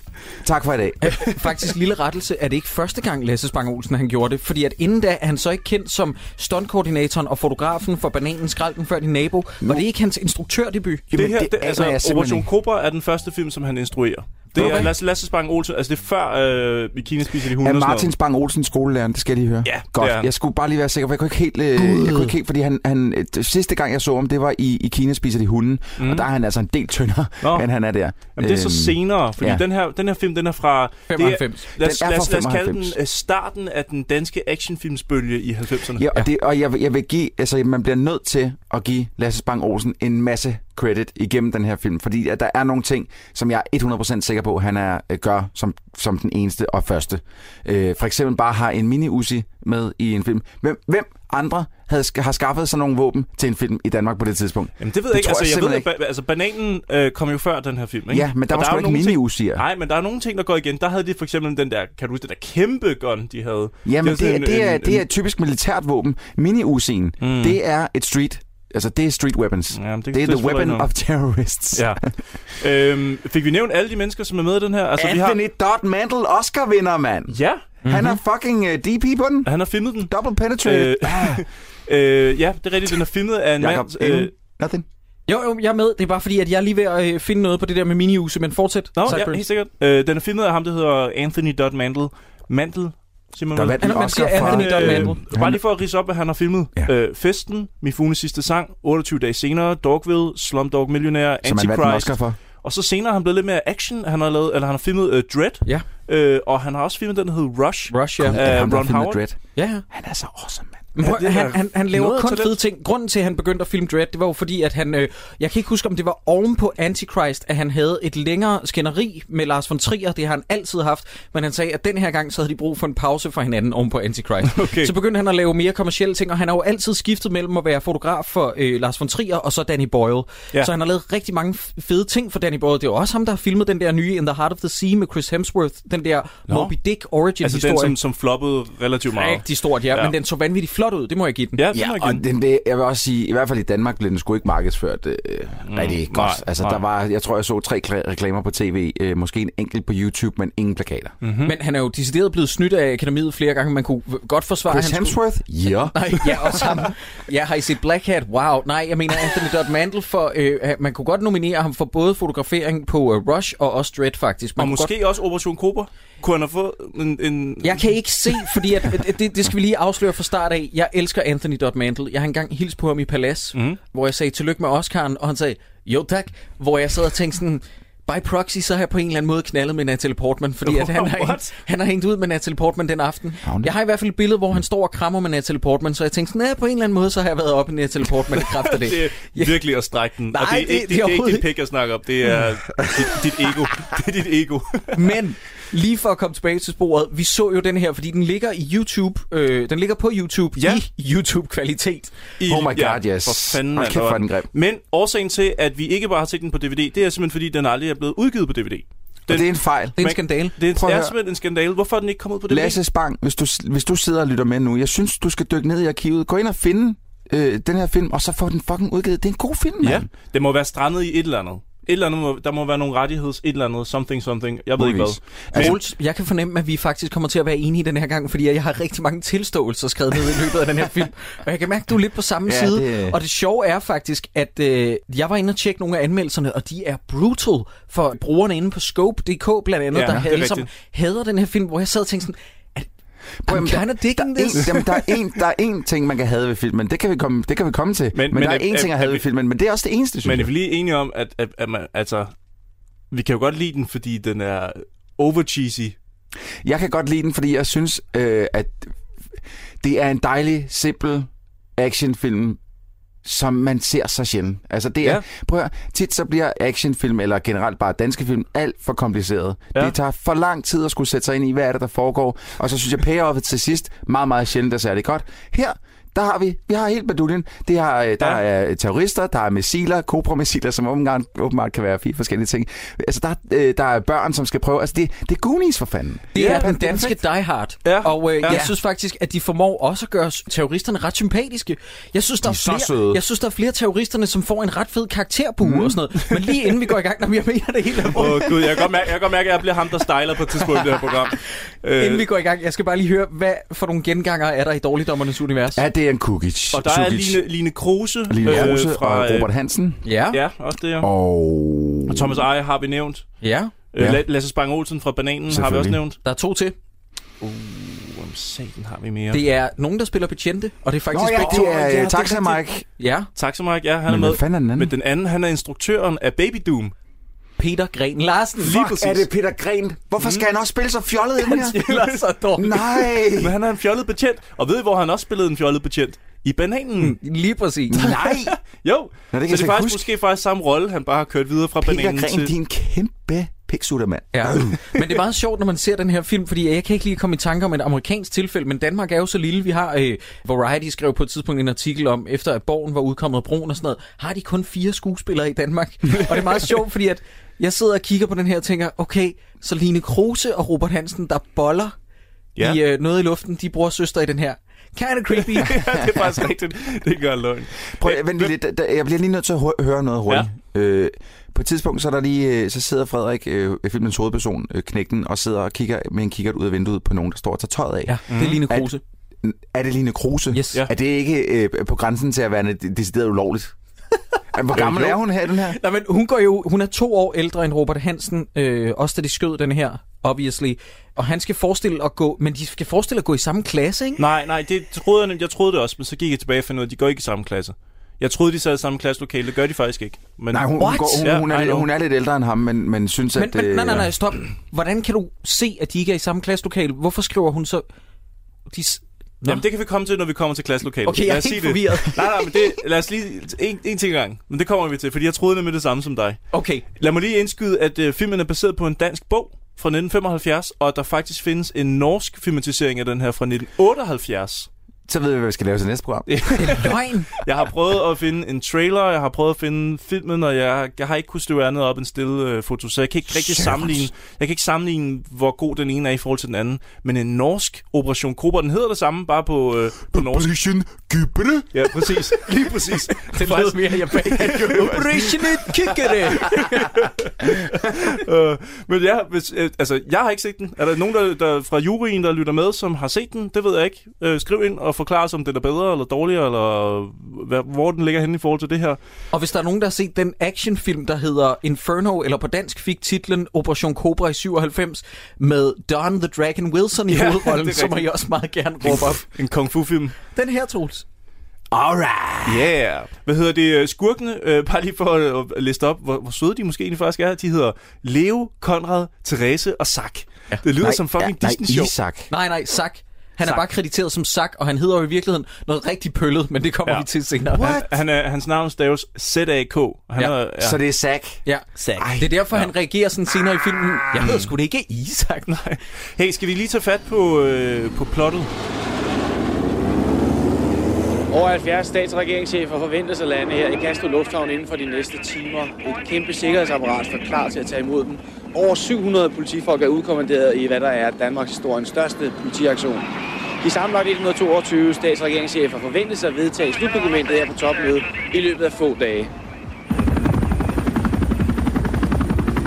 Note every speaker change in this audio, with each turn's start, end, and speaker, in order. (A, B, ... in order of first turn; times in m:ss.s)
0:00.4-0:01.2 A
0:01.0-0:11.1 B
0:11.1-0:12.5 A
0:11.1-0:18.1 C
0:14.6-0:14.9 A
0:14.6-0:14.9 B
0:17.6-0:29.6 A
0:19.6-0:20.3 C
0:26.0-0:26.2 C
0:27.4-0:27.7 C
0:28.3-0:36.0 C
0:31.1-0:31.6 B
0:31.8-0:32.9 A
0:36.0-0:55.9 A
0:54.8-1:05.0 C
0:58.1-0:59.6 A
1:03.8-1:12.0 A
1:07.2-1:07.6 C
1:09.7-1:10.9 C
1:11.7-1:15.4 C
1:15.0-1:21.4 A
1:17.3-1:17.8 C
1:17.8-1:18.2 B
1:19.4-1:20.1 C
1:20.6-1:24.3 C
1:23.6-1:24.8 A
1:25.3-1:29.4 B
1:29.0-1:49.2 C
1:33.5-1:35.6 A
1:33.8-1:35.2 B
1:41.4-1:42.4 A
1:47.9-1:48.4 B
1:48.2-1:49.4 A
1:49.6-1:49.8 B
1:49.9-1:50.8 A
1:51.0-2:18.0 B
1:51.0-1:52.6 C
2:04.4-2:04.9 C
2:17.4-2:20.1 C
2:19.1-2:21.7 B
2:21.6-2:22.2 C
2:21.7-2:31.2 A
2:25.6-2:26.8 C
2:31.2-2:31.5 C
2:31.4-2:35.2 B
2:34.7-2:36.9 A
2:35.9-2:44.9 B
2:44.6-2:48.6 C
2:47.6-3:09.6 B
3:00.6-3:01.5 C
3:03.4-3:03.7 A
3:08.4-3:15.1 C
3:10.3-3:11.5 B
3:14.9-3:22.2 B
3:20.6-3:20.8 C
3:22.4-3:32.8 C
3:22.4-3:24.5 A
3:29.3-3:30.0 A
3:30.0-3:30.5 B
3:30.7-3:31.1 A
3:32.5-3:40.1 A
3:39.8-3:45.8 C
3:44.8-3:45.8 A
3:45.5-4:02.9 B
3:52.5-3:53.2 A
3:59.9-4:00.7 C
4:03.4-4:10.5 A
4:03.4-4:05.1 B
4:08.1-4:09.2 C
4:10.2-4:12.3 C
4:13.1-4:16.0 C
4:16.6-4:18.9 A
4:19.8-4:22.6 A
4:23.2-4:47.2 A
4:46.3-4:58.9 B
4:46.4-4:46.6 C
4:47.8-4:48.6 C
4:48.5-4:48.7 A
4:52.4-4:53.2 A
4:55.7-4:56.8 C
4:58.0-5:02.2 C
5:02.0-5:05.8 B
5:05.7-5:07.4 A
5:06.7-5:09.5 C
5:08.3-5:10.0 A
5:10.0-5:10.4 B
5:10.3-5:11.1 C
5:11.0-5:12.4 A
5:12.1-5:13.3 C
5:13.4-5:13.7 B
5:13.9-5:16.2 C
5:14.0-5:14.2 A
5:15.5-5:16.0 A
5:16.2-5:16.7 B
5:17.4-5:19.4 C
5:19.3-5:23.3 B
5:21.1-5:22.8 A
5:23.3-5:26.9 C
5:24.1-5:24.9 A
5:27.6-5:28.8 B
5:28.6-5:31.8 A
5:28.6-5:29.3 C
5:31.4-5:32.9 B
5:31.9-5:32.2 C
5:32.6-5:33.6 A
5:33.3-5:37.2 C
5:37.0-5:38.1 B
5:37.9-5:38.6 A
5:38.2-5:42.5 C
5:39.3-5:40.0 A
5:41.8-5:44.8 A
5:44.3-6:01.9 B
6:02.6-6:05.8 B
6:05.3-6:08.5 C
6:08.0-6:23.7 A
6:18.1-6:19.0 B
6:18.3-6:18.6 C
6:20.5-6:20.8 B
6:24.5-6:25.8 A
6:24.7-6:25.2 C
6:25.7-6:34.2 B
6:34.2-6:40.7 C
6:40.5-6:44.1 A
6:40.8-6:41.2 B
6:41.2-6:41.9 C
6:43.4-6:47.8 B
6:48.7-6:49.6 B
6:49.4-6:56.4 C
6:51.0-6:52.5 B
6:56.5-6:56.8 B
6:57.0-7:04.7 C
7:05.1-7:06.9 A
7:06.3-7:20.5 C
7:06.6-7:07.3 B
7:13.3-7:14.1 A
7:20.1-7:22.2 A
7:21.7-7:39.0 C
7:22.7-7:27.0 B
7:24.5-7:25.1 A
7:39.3-7:49.2 B
7:47.1-7:48.1 C
7:48.8-7:50.2 C
7:50.3-7:51.0 B
7:51.7-7:52.7 A
7:52.4-8:01.9 C
8:00.8-8:02.3 A
8:02.3-8:07.8 B
8:06.8-8:10.8 C
8:10.6-8:11.4 A
8:11.4-8:15.5 B
8:11.9-8:12.3 A
8:14.1-8:14.5 C
8:15.5-8:18.5 C
8:21.3-8:33.1 D
8:33.6-8:39.3 D